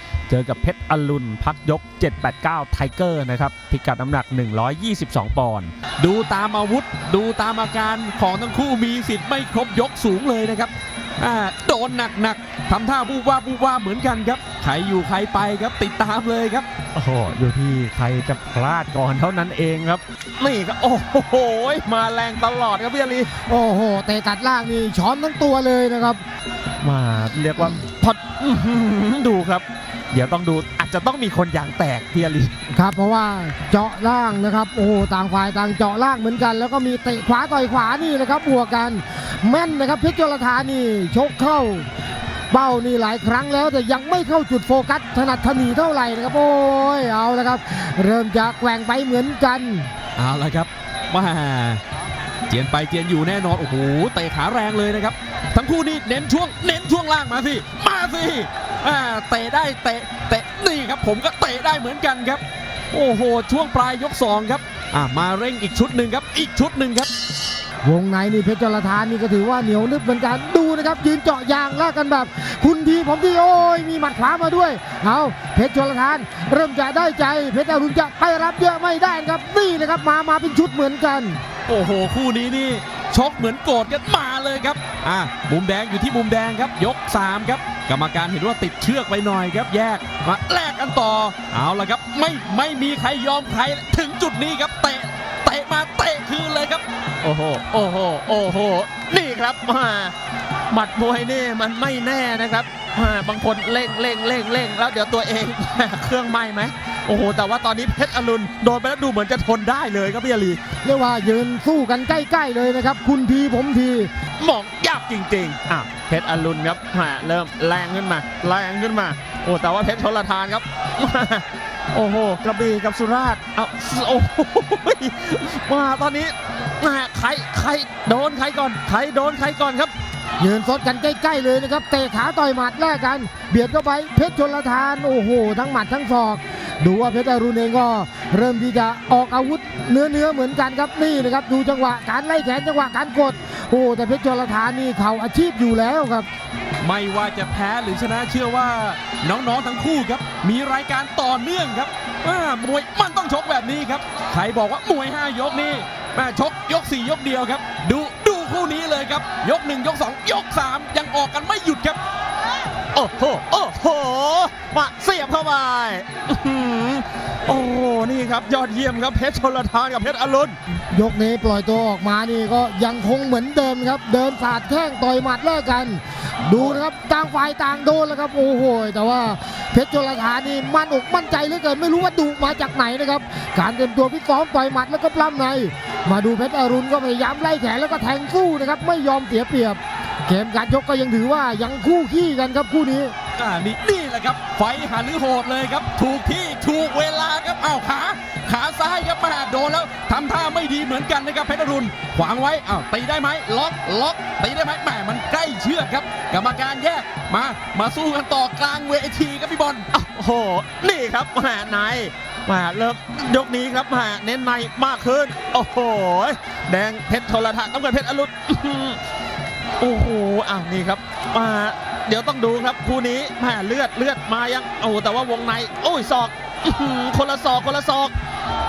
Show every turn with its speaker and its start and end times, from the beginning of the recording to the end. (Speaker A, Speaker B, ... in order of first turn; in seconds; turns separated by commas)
Speaker A: 0.3-5.7, Speaker B: 6.0-16.7, Speaker A: 16.9-23.3, Speaker C: 23.3-26.2, Speaker A: 26.8-32.5, Speaker C: 32.7-41.9, Speaker C: 42.5-49.9, Speaker B: 50.2-51.8, Speaker B: 52.5-67.1, Speaker C: 67.8-81.4, Speaker B: 81.7-96.8, Speaker A: 97.2-100.1, Speaker A: 100.7-110.6, Speaker C: 110.8-114.1, Speaker A: 114.4-129.9, Speaker C: 130.4-146.3, Speaker B: 146.8-162.0, Speaker A: 162.9-170.6, Speaker C: 170.9-193.1, Speaker B: 193.4-209.8, Speaker A: 209.9-219.0, Speaker A: 219.8-228.1